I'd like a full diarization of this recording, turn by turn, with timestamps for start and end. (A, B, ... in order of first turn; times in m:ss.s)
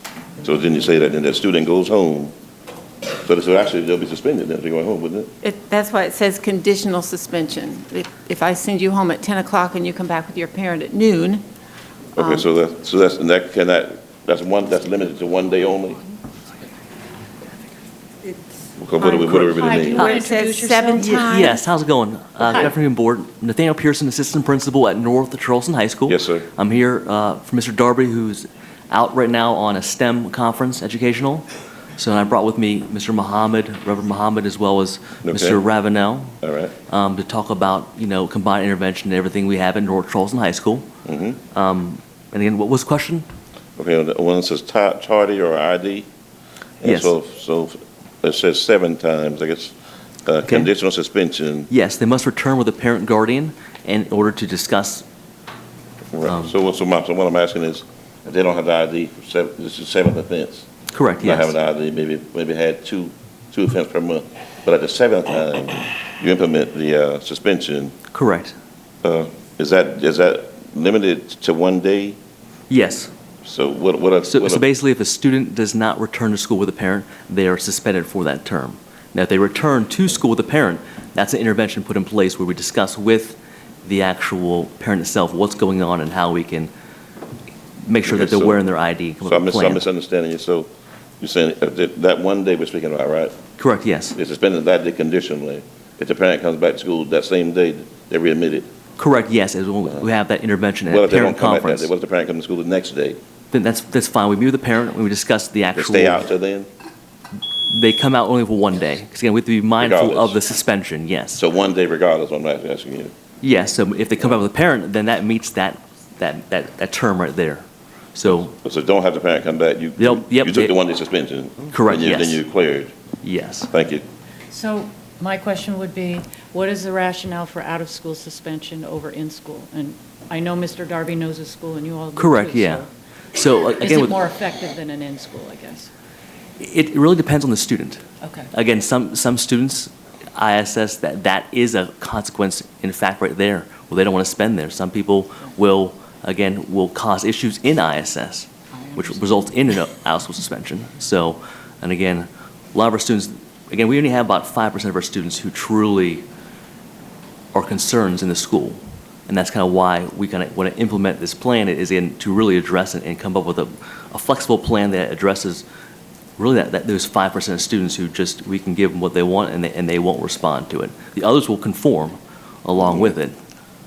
0:00.4-0:02.3 A
0:03.3-0:05.3 A
0:05.4-0:11.4 B
0:12.2-0:16.0 A
0:12.2-0:12.5 B
0:18.8-0:20.1 A
0:19.0-0:21.4 C
0:19.9-0:21.6 B
0:21.1-0:31.4 D
0:26.1-0:26.5 A
0:32.0-0:36.4 D
0:35.2-0:35.6 A
0:36.4-0:36.7 A
0:36.9-0:40.9 D
0:41.0-0:41.4 A
0:41.5-0:43.3 D
0:43.8-0:46.1 A
0:46.8-0:49.8 A
0:46.8-0:47.2 D
0:50.3-0:51.7 A
0:50.4-0:50.7 D
0:51.7-0:55.0 D
0:56.1-1:00.7 A
0:56.2-0:56.5 D
1:00.9-1:01.6 D
1:01.2-1:07.9 A
1:08.1-1:08.6 D
1:09.0-1:12.2 A
1:12.7-1:13.1 D
1:13.4-1:14.7 A
1:14.3-1:26.7 D
1:27.8-1:29.8 D
1:28.0-1:28.6 A
1:29.2-1:30.7 A
1:31.2-1:33.4 A
1:33.6-1:34.2 D
1:34.2-1:38.7 A
1:39.0-1:41.9 D
1:40.9-1:43.2 A
1:43.5-1:46.2 D
1:45.8-1:46.7 A
1:47.7-1:51.4 D
1:49.8-1:50.4 A
1:51.4-1:53.1 A
1:53.4-1:57.6 D
1:58.2-1:58.5 D
1:58.3-2:02.9 A
2:00.0-2:00.8 D
2:01.7-2:02.4 D
2:03.2-2:03.7 D
2:03.7-2:04.0 A
2:04.5-2:12.9 C
2:12.2-2:14.2 D
2:13.8-2:15.9 C
2:16.6-2:36.3 D
2:18.2-2:18.5 C
2:28.7-2:29.5 C
2:37.5-2:45.6 D
2:46.4-2:53.4 D
2:52.8-2:53.1 A